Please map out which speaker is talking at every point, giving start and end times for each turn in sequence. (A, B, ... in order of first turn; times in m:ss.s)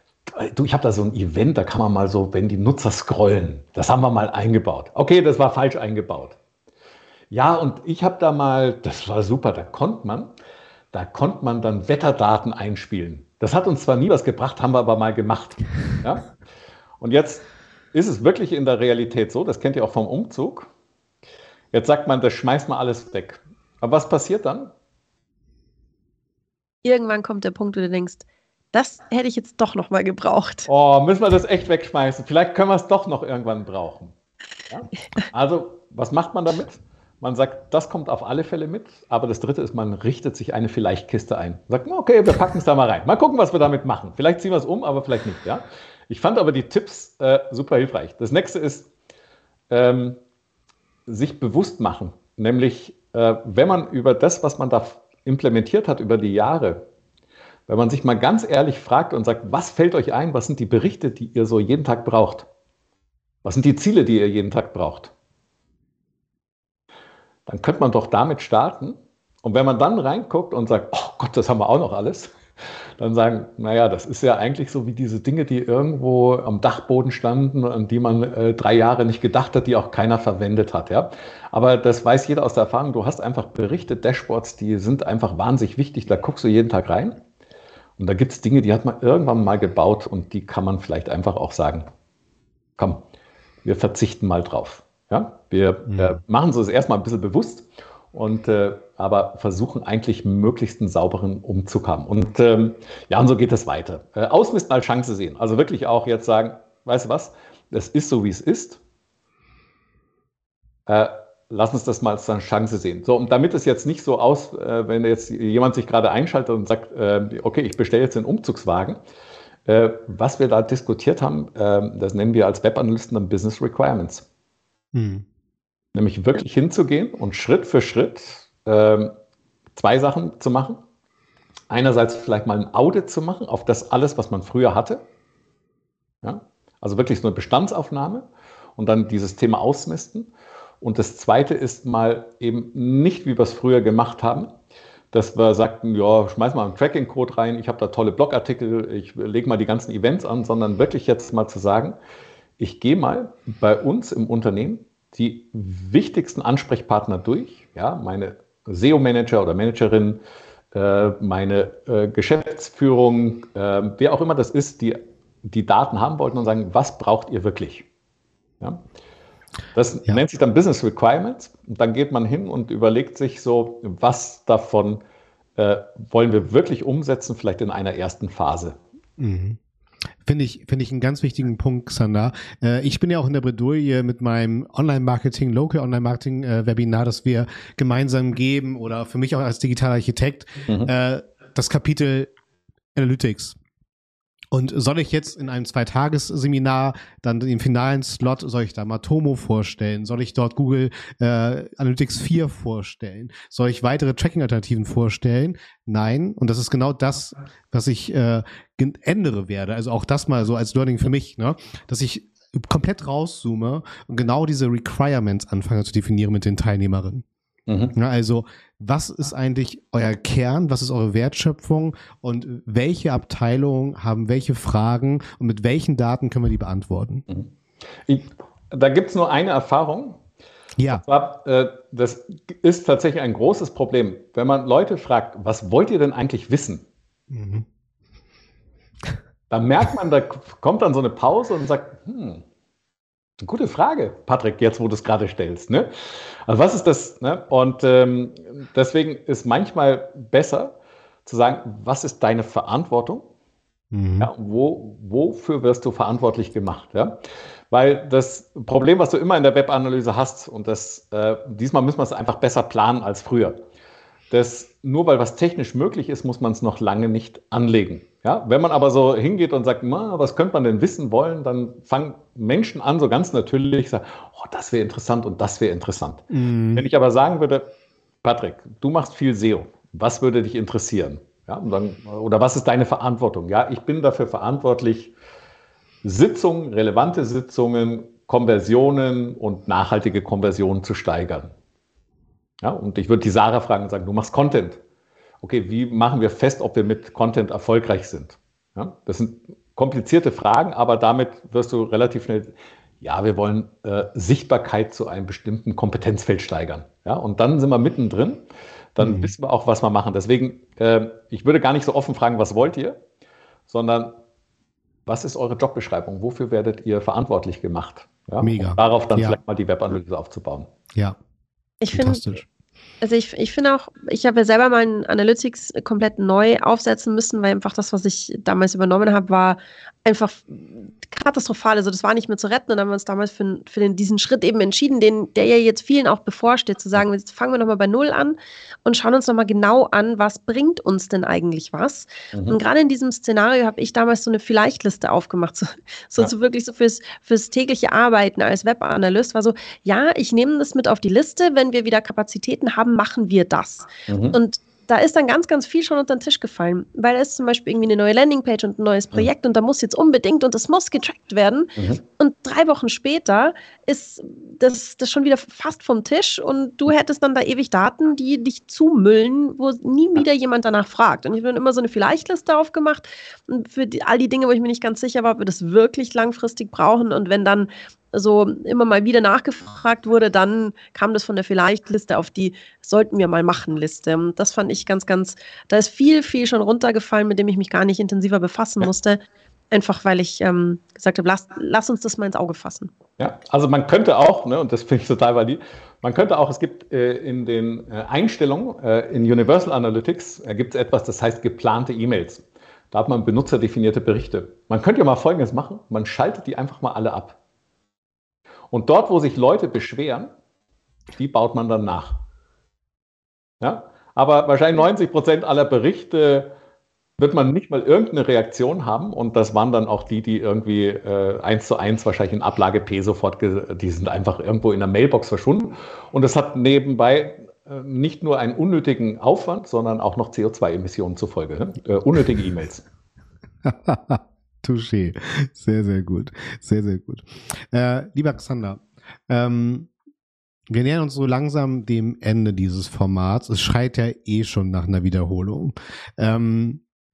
0:00.3-0:06.4 A
0:07.3-0:10.3 A
0:10.9-0:16.3 A
0:17.0-0:20.7 A
0:21.7-0:24.7 A
0:26.8-0:30.7 B
0:30.7-0:34.1 A
0:34.7-0:48.9 A
0:49.7-0:50.2 A
0:51.1-0:56.8 A
0:57.7-1:02.5 A
1:03.4-1:05.1 A
1:07.4-1:12.3 A
1:13.0-1:27.2 A
1:28.0-1:31.9 A
1:32.8-1:33.0 A
1:33.6-1:48.8 A
1:35.9-1:36.2 C
1:50.9-1:59.0 A
1:59.7-2:04.2 A
2:04.9-2:05.2 C
2:05.9-2:09.1 A
2:09.8-2:10.8 A
2:11.7-2:15.0 A
2:16.2-2:18.2 A
2:18.8-2:20.3 A
2:20.8-2:24.5 A
2:25.1-2:32.0 A
2:32.6-2:40.2 A
2:40.7-2:47.8 A
2:49.7-2:55.0 A
2:55.6-2:58.8 A
2:59.2-2:59.6 C
3:00.2-3:12.3 C
3:12.9-3:13.6 C
3:14.5-3:37.2 C
3:37.7-3:38.0 A
3:37.9-3:47.2 C
3:48.0-3:50.2 A
3:50.8-3:51.0 C
3:50.9-3:56.8 A
3:57.3-3:57.6 C
3:59.5-4:02.4 A
4:03.4-4:05.9 A
4:06.4-4:10.7 A
4:11.2-4:13.3 A
4:13.9-4:14.3 C
4:14.2-4:17.2 A
4:17.7-4:23.6 A
4:24.3-4:37.7 A
4:36.3-4:36.8 C
4:38.2-4:45.1 A
4:46.0-4:51.5 A
4:52.6-4:54.8 A
4:55.4-5:08.4 A
5:09.0-5:13.0 A
5:09.0-5:09.3 C
5:13.7-5:14.2 A
5:15.0-5:20.7 A
5:18.4-5:19.4 C
5:21.8-5:22.2 B
5:21.9-5:22.4 C
5:23.0-6:29.2 B
5:42.3-5:42.6 A
5:54.1-5:54.4 A
6:01.8-6:02.0 A
6:29.7-6:32.9 B
6:33.2-6:47.4 A
6:48.7-6:50.3 A
6:51.1-6:52.2 A
6:53.6-6:56.5 A
6:57.2-7:12.8 A
7:13.6-7:19.9 C
7:20.7-7:26.8 C